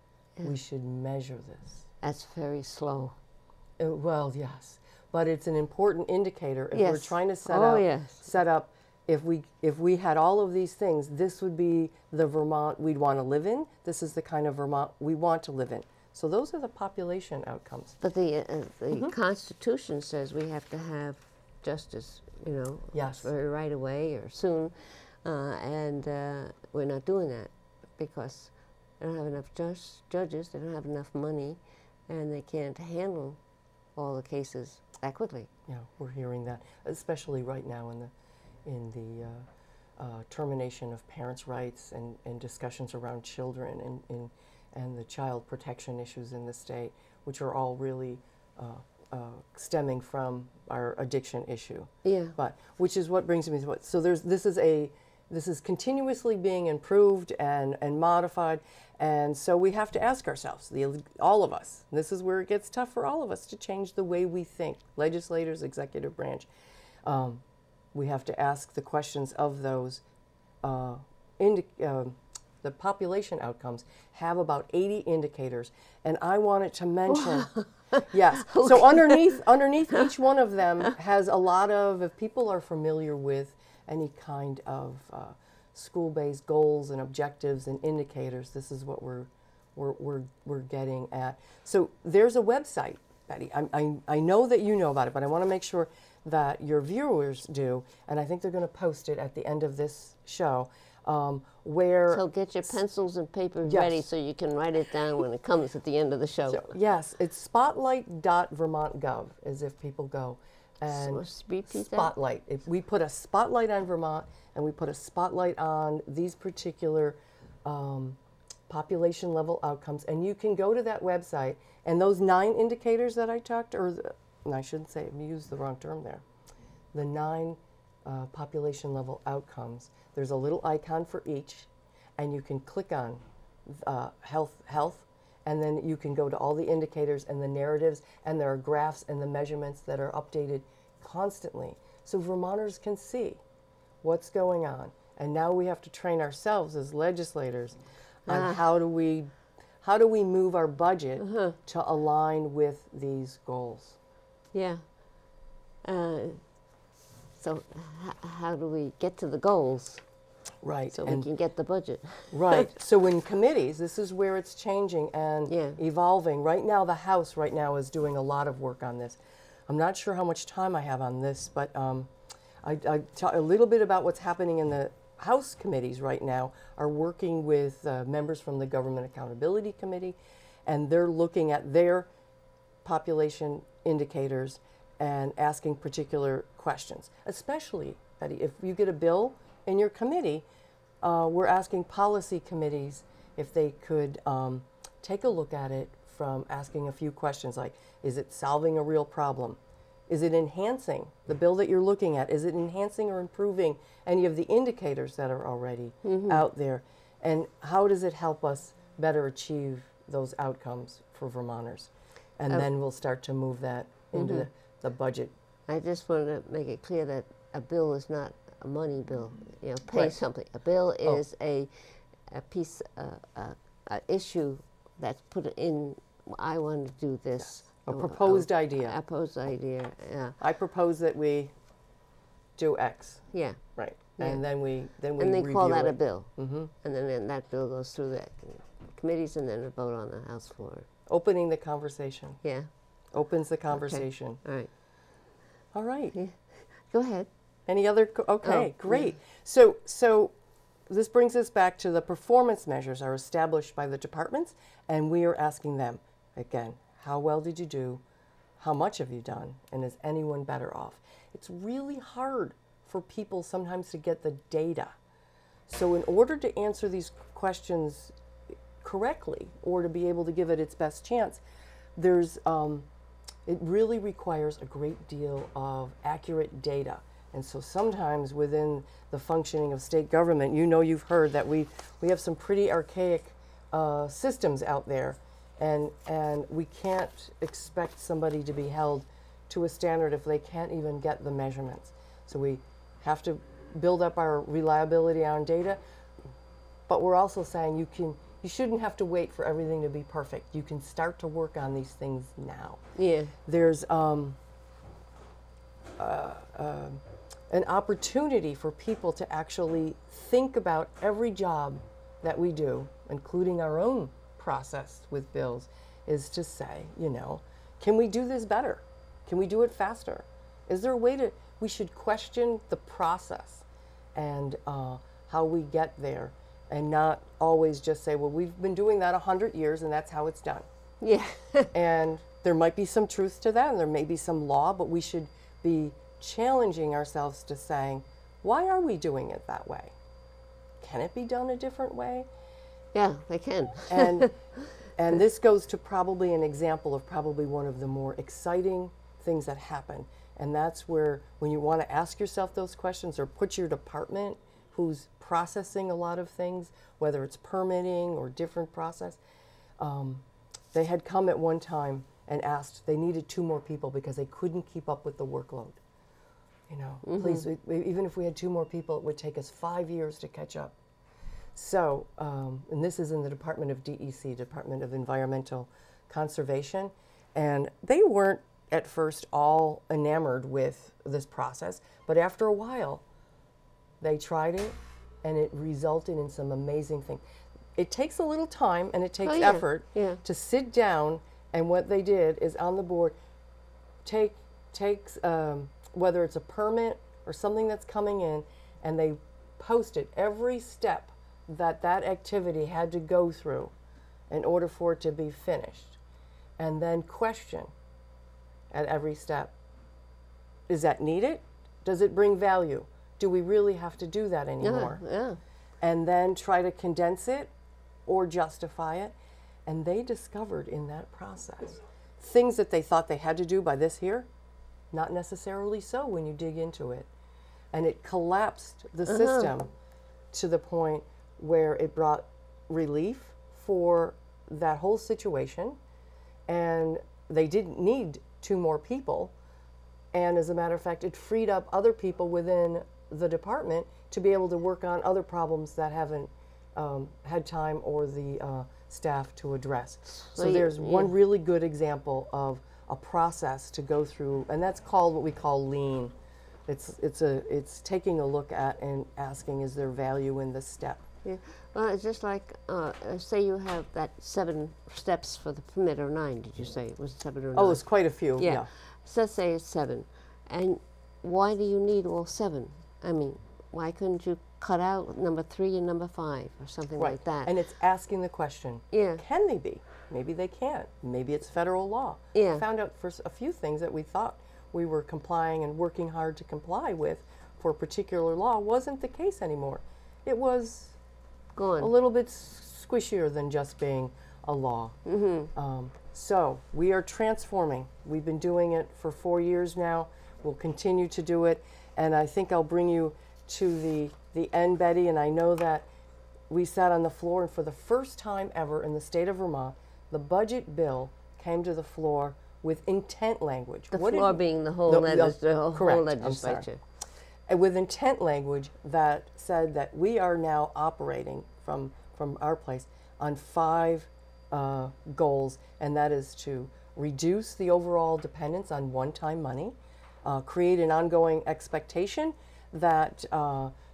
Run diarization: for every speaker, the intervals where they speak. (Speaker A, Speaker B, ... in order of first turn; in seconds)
Speaker A: 0.4-1.9, 3.8-18.0, 22.9-23.3, 35.7-38.1, 38.6-39.5, 40.0-66.5, 67.0-70.0, 70.6-102.8, 103.6-104.0, 106.5-118.2, 118.7-126.2, 126.9-143.4, 144.0-154.0, 160.6-161.3, 162.3-182.1, 182.8-190.4, 191.0-215.3, 219.9-220.2, 227.4-229.0, 230.4-231.5, 232.6-236.7, 241.1-242.4, 243.1-244.4, 245.7-246.1, 247.7-250.3, 250.9-258.0, 258.6-264.9, 265.7-268.1, 268.8-271.4, 271.9-272.9, 273.4-295.8, 296.9-302.8, 303.4-304.4, 306.0-330.6, 331.7-339.9, 340.8-342.3, 343.9-359.2, 359.8-365.8, 366.7-370.7, 371.5-383.0, 384.0-387.2, 387.8-393.1, 394.0-403.7, 404.3-406.0, 406.6-407.7, 408.7-409.5, 410.7-415.0, 415.8-417.5, 418.1-419.1, 419.6-424.3, 424.9-427.1, 427.7-429.7, 430.3-435.8, 436.5-439.3, 440.1-456.1, 456.7-461.0, 467.5-468.7, 476.9-491.0, 491.8-495.0, 495.5-505.9, 506.5-516.6, 517.5-533.7
Speaker B: 2.0-3.1, 6.7-8.2, 18.0-33.4, 34.0-35.5, 52.0-52.3, 77.1-79.4, 102.1-106.7, 110.9-112.1, 148.3-148.6, 151.2-151.6, 154.5-155.3, 155.8-156.7, 157.4-160.0, 160.9-162.7, 165.5-165.8, 206.0-206.4, 214.1-214.5, 215.7-230.4, 233.3-234.4, 235.2-240.9, 242.4-242.7, 243.7-244.7, 246.1-247.3, 248.4-249.1, 302.9-303.3, 331.0-331.7, 342.9-344.5, 367.0-367.5, 389.2-390.2, 414.6-415.4, 429.1-429.5, 450.1-451.1, 461.2-477.5, 478.9-479.2, 482.3-482.6, 491.5-491.9, 495.1-495.5, 513.9-516.8